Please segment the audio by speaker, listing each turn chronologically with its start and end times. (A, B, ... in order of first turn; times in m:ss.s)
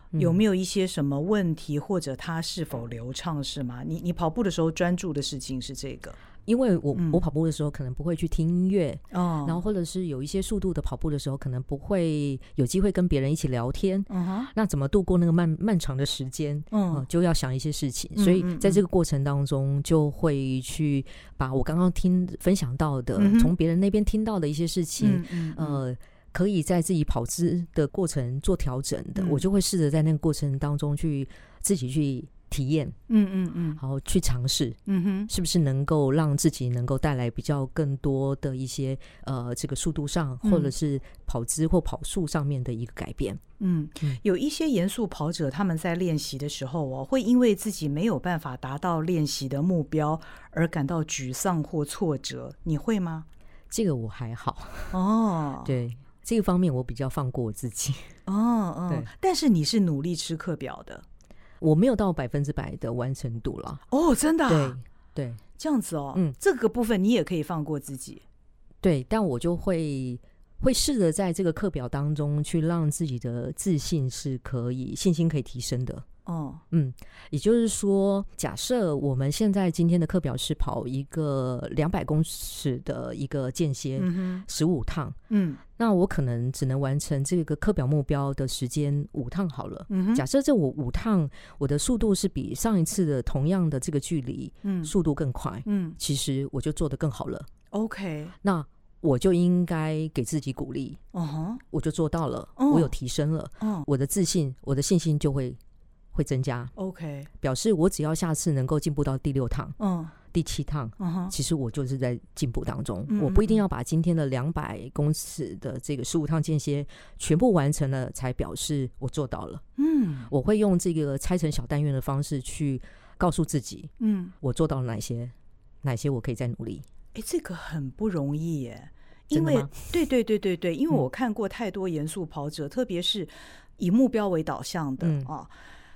0:00.1-0:00.4 A
0:00.2-0:06.2 B
0:06.5-0:33.0 A
0:07.0-0:07.2 B
0:09.1-0:09.6 B
0:14.1-0:14.5 B
0:16.7-0:17.0 B
0:18.2-0:18.8 B
0:23.2-0:23.5 B
0:25.0-0:25.8 B
0:29.2-0:29.4 B
0:33.1-0:33.8 B
0:33.8-0:43.4 A
0:34.9-0:35.3 B
0:40.4-0:40.7 B
0:43.6-0:53.3 B
0:53.7-0:55.0 A
0:54.9-0:55.8 B
0:55.6-0:58.2 A
0:58.3-1:01.0 B
1:01.6-1:03.8 A
1:03.9-1:04.8 B
1:04.5-1:05.4 A
1:05.6-1:08.2 B
1:08.8-1:16.0 A
1:16.3-1:16.6 B
1:16.7-1:25.2 A
1:24.0-1:24.4 B
1:25.3-1:25.6 B
1:25.8-1:37.5 A
1:29.9-1:30.2 B
1:34.6-1:34.9 B
1:35.7-1:36.0 B
1:37.7-1:38.4 B
1:38.4-1:41.0 A
1:41.1-1:41.6 B
1:41.7-1:45.6 A
1:42.6-1:42.9 B
1:43.6-1:43.9 B
1:46.1-1:46.7 A
1:46.8-1:47.3 B
1:47.4-1:49.8 A
1:49.8-1:50.1 B
1:50.3-1:59.6 A
1:51.0-1:51.3 B
1:53.1-1:53.6 B
1:59.8-2:00.3 B
2:00.3-2:06.8 A
2:04.0-2:04.4 B
2:07.2-2:15.5 B
2:09.3-2:09.8 A
2:15.0-2:15.3 A